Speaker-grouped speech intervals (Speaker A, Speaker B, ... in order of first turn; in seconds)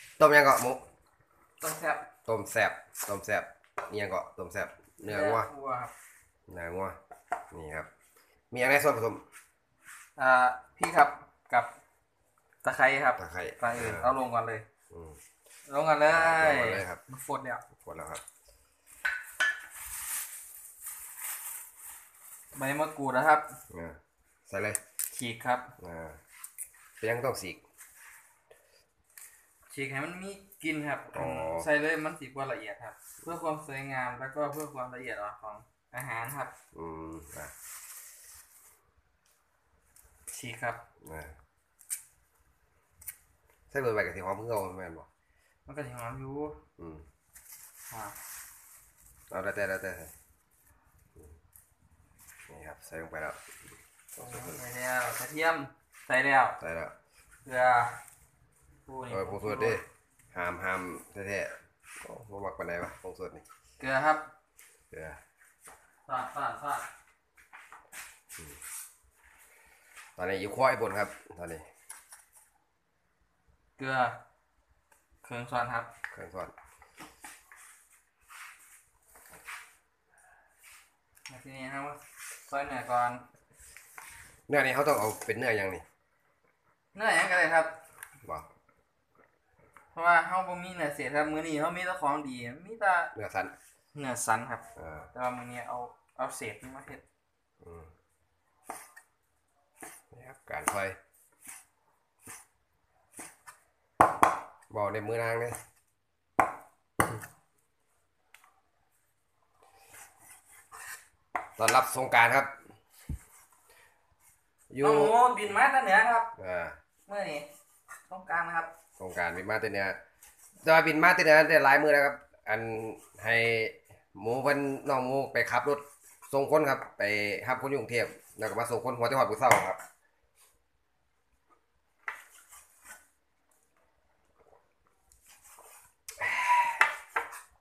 Speaker A: 0.2-0.8, 2.3-5.5, 6.5-7.0, 7.5-7.9, 8.5-9.2, 13.2-14.2, 14.9-15.2, 16.1-17.0, 17.8-18.2, 23.7-24.8, 25.8-26.2, 27.0-27.6, 31.1-31.7, 36.7-37.5, 41.0-41.4, 43.7-45.1, 46.8-47.0, 49.3-50.1, 52.5-53.4, 54.2-54.6, 56.6-56.9, 59.1-63.5, 64.9-65.2, 70.2-71.7, 76.1-76.5, 84.5-85.8, 93.2-93.5, 94.8-95.1, 97.6-97.9, 100.1-101.0, 104.7-105.6, 111.6-112.5, 114.7-115.2, 116.4-116.8, 119.0-120.0, 120.6-129.8, 136.2-136.8
Speaker B: 1.6-2.1, 5.0-5.9, 10.2-11.7, 12.6-14.7, 15.7-17.6, 22.6-23.6, 25.1-25.7, 29.7-36.5, 40.3-40.8, 45.7-46.6, 54.2-56.6, 57.5-58.0, 58.9-59.8, 63.8-64.3, 66.1-66.9, 73.8-74.2, 75.2-75.9, 81.3-83.2, 87.0-87.8, 89.9-93.1, 94.0-97.0, 114.8-116.3, 117.1-117.5, 118.1-118.7